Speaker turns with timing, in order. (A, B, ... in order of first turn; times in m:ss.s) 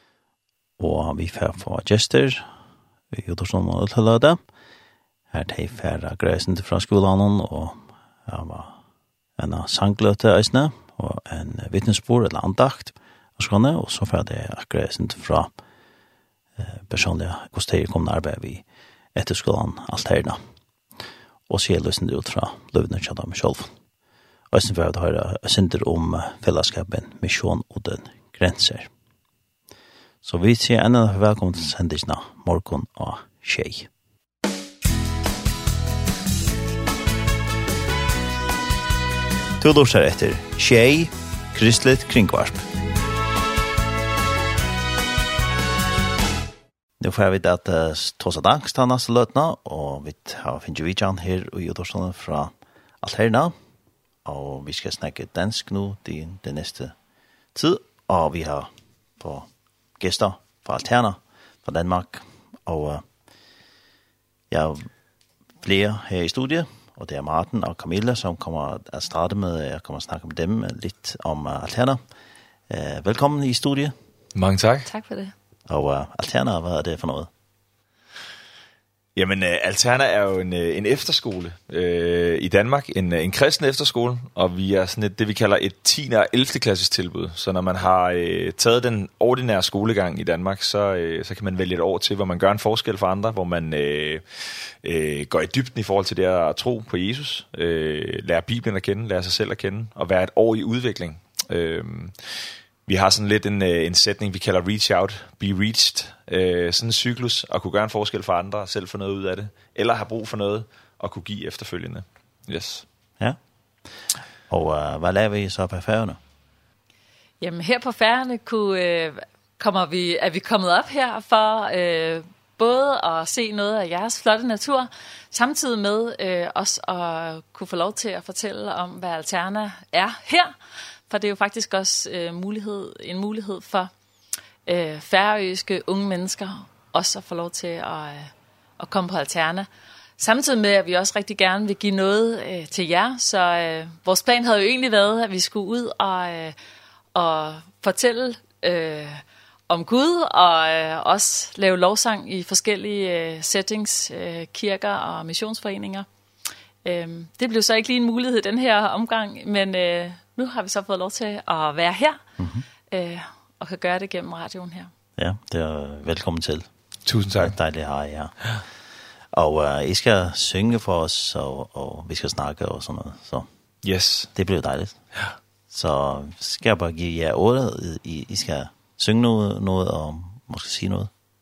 0:00.8-0:02.5 A
0:03.1-0:04.4 A
0:05.3-0:08.8 A
0:09.4-0:15.5 A
0:16.6-0:18.6 A
0:19.2-0:20.4 A
0:21.5-0:23.8 A
0:24.5-0:28.9 A
0:30.2-0:33.9 A
0:39.6-0:42.6 A
0:47.0-0:53.5 A
0:54.2-0:56.9 A
0:57.5-1:03.0 A
1:04.5-1:04.9 A
1:05.6-1:12.0 A
1:12.7-1:13.9 A
1:14.3-1:14.9 B
1:14.8-1:15.3 C
1:15.7-1:17.3 A
1:19.2-1:52.8 B
1:53.2-1:56.2 A
1:57.4-2:13.9 C
2:14.6-2:26.6 C
2:27.1-2:36.1 C
2:36.8-2:42.2 C
2:42.4-2:42.6 A
2:42.9-2:44.9 C
2:45.2-2:46.7 A
2:47.0-2:47.6 B
2:47.4-2:48.4 A
2:49.3-2:53.5 A
2:53.8-2:54.3 B
2:54.3-2:55.0 A
2:55.7-3:01.1 A